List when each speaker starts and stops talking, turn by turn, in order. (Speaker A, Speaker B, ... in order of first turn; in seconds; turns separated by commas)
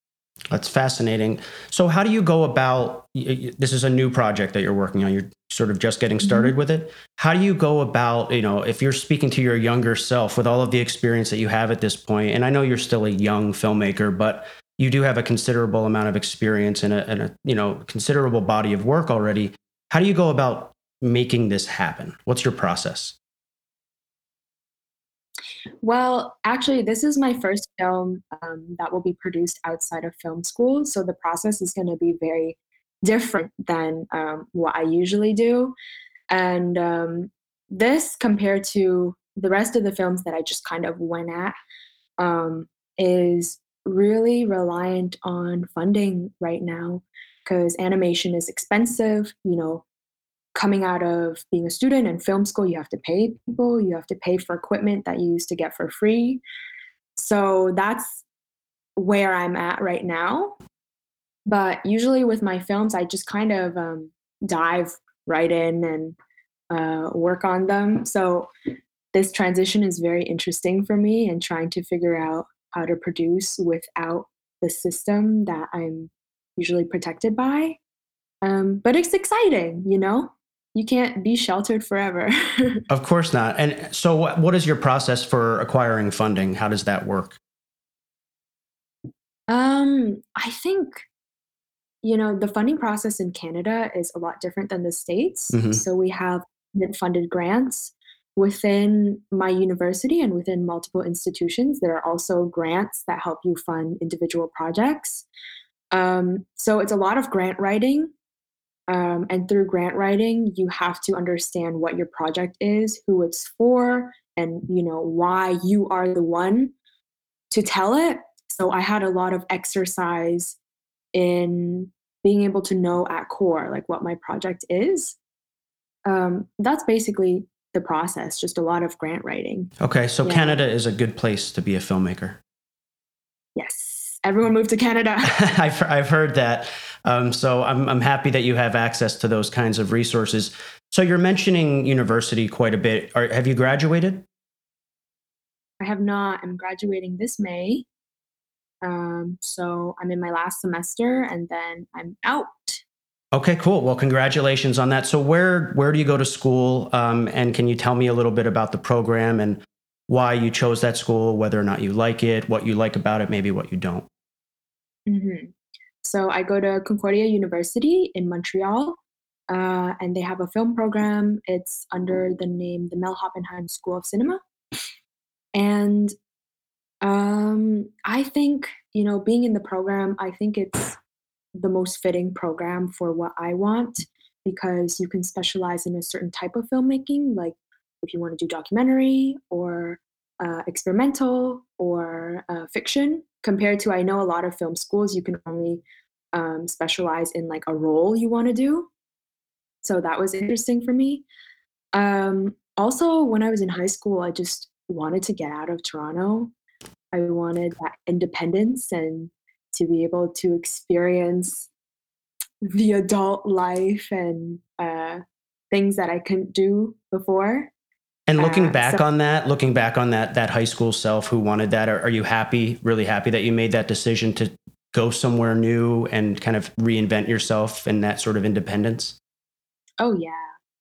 Speaker A: 0.5-23.2, Speaker B: 6.2-6.5, Speaker B: 25.8-35.8, Speaker B: 36.3-41.6, Speaker B: 42.2-49.9, Speaker B: 50.5-56.4, Speaker B: 57.2-58.2, Speaker B: 59.0-60.6, Speaker B: 61.5-66.2, Speaker B: 66.7-68.5, Speaker B: 69.1-77.8, Speaker B: 78.4-82.8, Speaker A: 82.9-87.4, Speaker B: 89.5-91.0, Speaker B: 92.0-105.3, Speaker A: 95.5-95.8, Speaker B: 105.9-108.1, Speaker B: 108.9-116.7, Speaker B: 117.5-120.6, Speaker B: 121.1-125.2, Speaker B: 126.1-129.7, Speaker A: 129.8-132.4, Speaker B: 130.2-130.6, Speaker B: 133.6-135.3, Speaker A: 135.2-144.2, Speaker B: 145.8-147.9, Speaker B: 148.8-152.8, Speaker A: 153.3-164.1, Speaker B: 165.1-169.0, Speaker B: 169.5-174.4, Speaker B: 175.6-176.1, Speaker B: 177.0-181.0, Speaker B: 181.6-198.9, Speaker B: 199.8-201.2, Speaker B: 201.9-206.5, Speaker B: 207.1-211.7, Speaker B: 212.7-217.7, Speaker A: 218.3-229.2, Speaker B: 218.4-219.0, Speaker B: 230.0-230.5